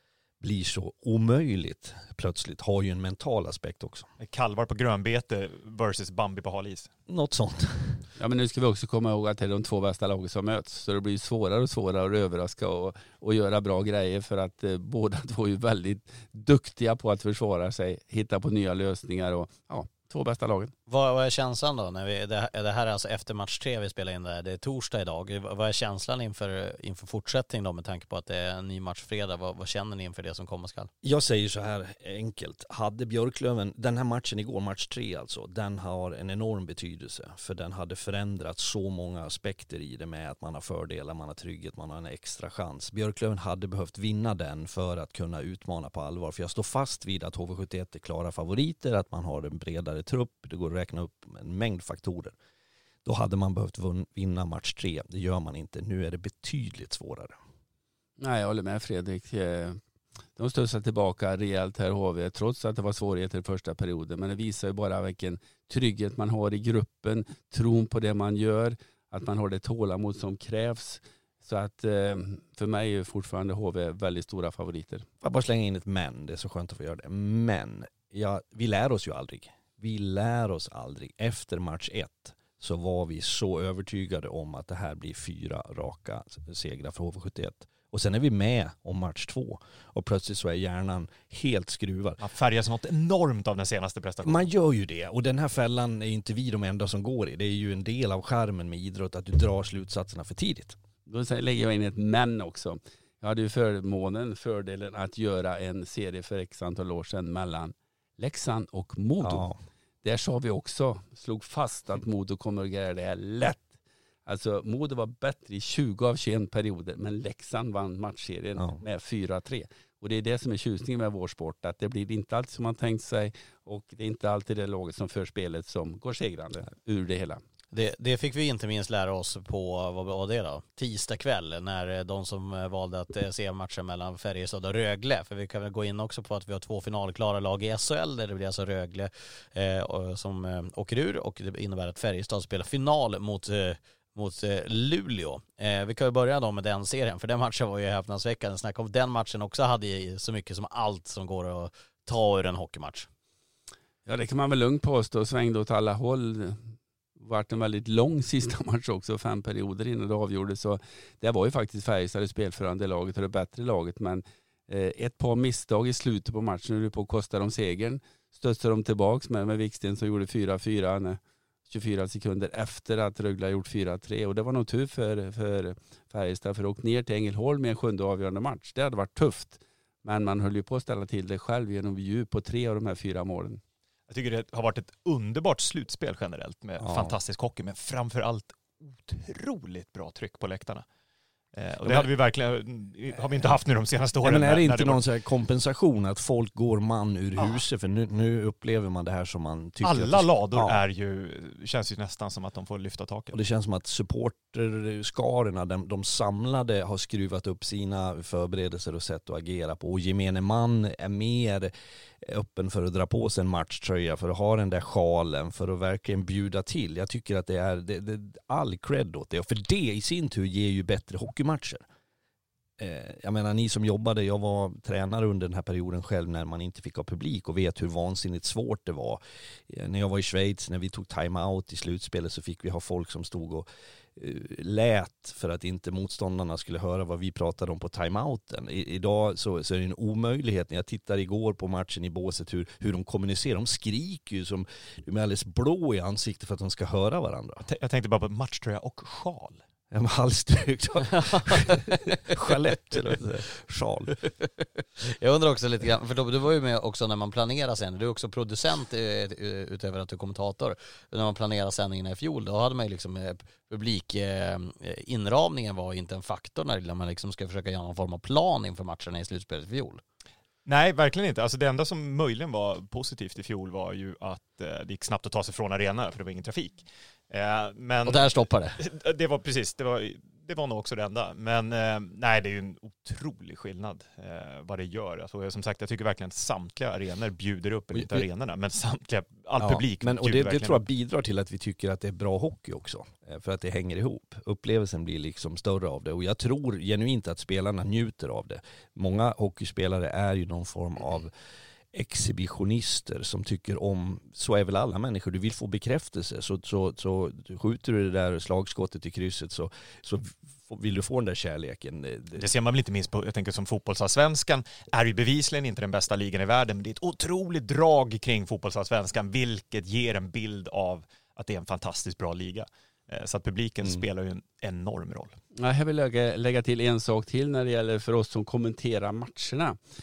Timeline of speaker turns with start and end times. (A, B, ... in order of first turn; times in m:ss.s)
0:00.4-0:04.1 A
0:04.2-0:06.9 B
0:07.1-0:08.0 A
0:08.2-0:20.7 C
0:20.9-0:30.9 D
0:31.0-0:52.4 A
0:53.0-0:57.4 A
0:58.2-0:59.8 C
1:00.4-1:15.1 C
1:15.2-1:32.2 A
1:32.2-1:34.5 B
1:34.2-1:40.8 A
1:41.1-1:49.5 C
1:49.2-1:49.6 A
1:50.0-1:53.7 C
1:54.3-2:07.4 C
1:58.6-1:58.8 A
2:07.7-2:33.1 D
2:34.1-2:36.6 C
2:37.2-3:03.6 C
3:04.1-3:10.8 B
3:06.8-3:07.2 A
3:11.6-3:15.0 B
3:11.8-3:12.1 A
3:14.2-3:20.8 A
3:17.4-3:17.6 B
3:19.8-3:23.4 B
3:23.3-3:41.8 A
3:42.8-3:53.7 A
3:54.2-4:07.6 A
4:07.7-4:09.6 B
4:09.9-4:14.3 A
4:11.2-4:11.9 D
4:15.0-4:30.0 D
4:30.7-4:50.8 B
4:38.0-4:38.8 D
4:47.9-4:48.3 A
4:49.6-5:01.3 A
5:01.9-5:12.5 A
5:12.4-5:25.4 B
5:25.6-5:29.8 C